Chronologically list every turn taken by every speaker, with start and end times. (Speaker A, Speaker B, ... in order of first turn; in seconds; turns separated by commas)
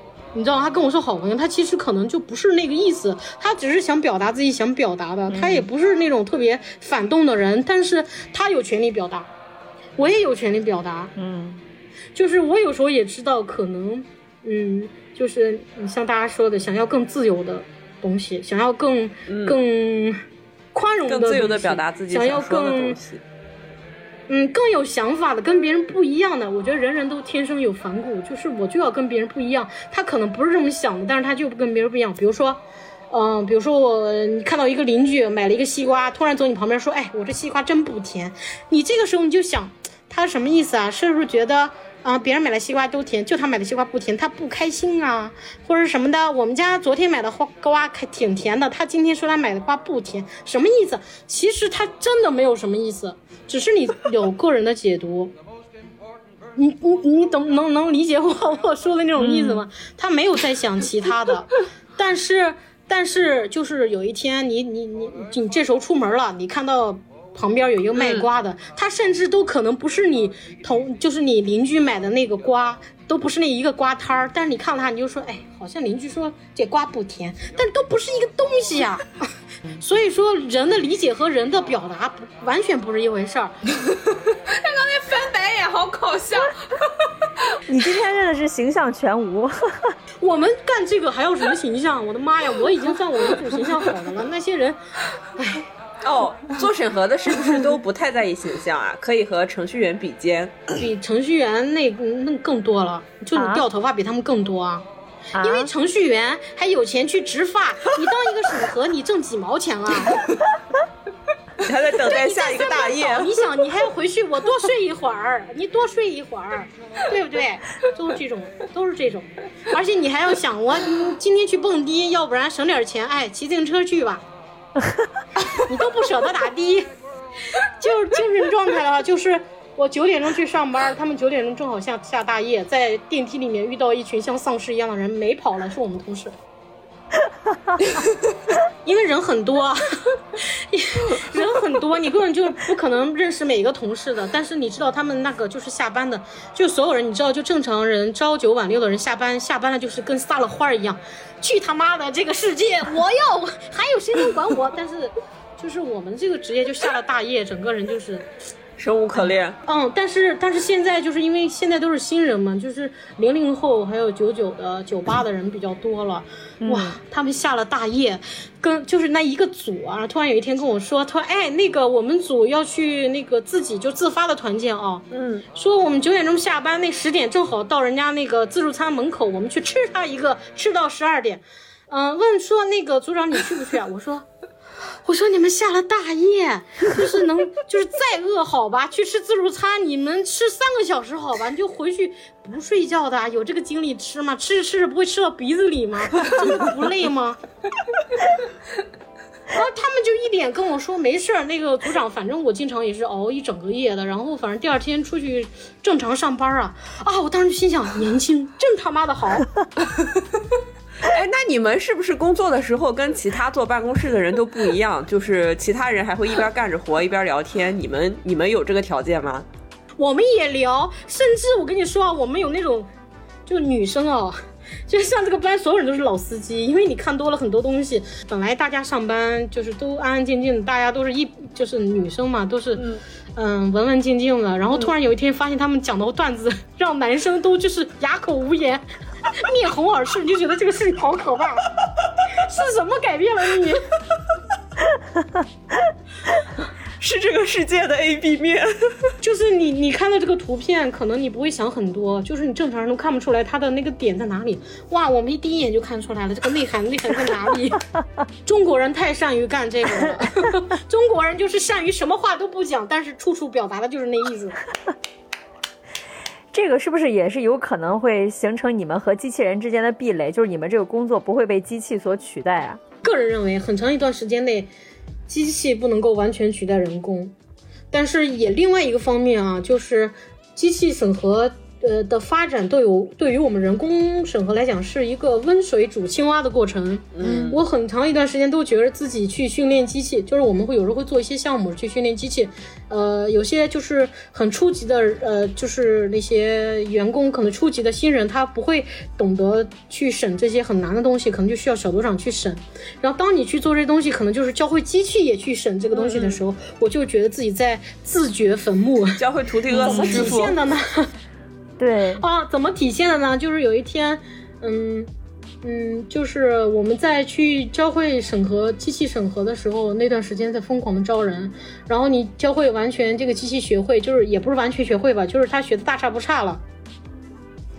Speaker A: 0.3-9.3, Speaker B: 5.3-5.7, Speaker A: 10.0-11.1, Speaker B: 11.2-11.6, Speaker A: 12.1-20.2, Speaker C: 19.3-19.6, Speaker A: 20.7-23.0, Speaker C: 21.0-23.2, Speaker A: 24.3-55.3, Speaker A: 56.5-79.2, Speaker B: 59.2-59.6, Speaker A: 79.8-83.5, Speaker D: 84.5-86.6, Speaker B: 87.7-89.9, Speaker A: 90.2-94.8, Speaker A: 95.3-95.6, Speaker C: 96.0-100.6, Speaker A: 100.8-104.9, Speaker B: 103.3-103.7, Speaker B: 105.3-105.7, Speaker A: 105.4-110.2, Speaker C: 111.6-113.5, Speaker A: 112.0-124.2, Speaker A: 125.5-126.9, Speaker A: 127.6-136.3, Speaker A: 138.8-139.8, Speaker A: 140.3-158.2, Speaker C: 158.8-159.6, Speaker A: 159.6-184.3, Speaker B: 166.6-167.0, Speaker C: 175.1-175.4, Speaker A: 185.0-197.4, Speaker A: 199.5-209.5, Speaker C: 211.0-219.4, Speaker A: 220.0-222.9, Speaker A: 223.5-232.8, Speaker C: 232.8-233.0, Speaker A: 233.3-241.7, Speaker A: 242.3-243.8, Speaker C: 247.0-248.7, Speaker A: 249.2-257.8, Speaker A: 258.4-264.6, Speaker B: 266.5-272.8, Speaker A: 273.0-274.7, Speaker A: 275.3-277.3, Speaker A: 277.9-309.2, Speaker C: 287.1-287.6, Speaker C: 309.2-310.6, Speaker B: 309.7-310.4, Speaker A: 309.8-311.1, Speaker B: 311.8-312.2, Speaker A: 312.2-315.1, Speaker A: 315.6-326.6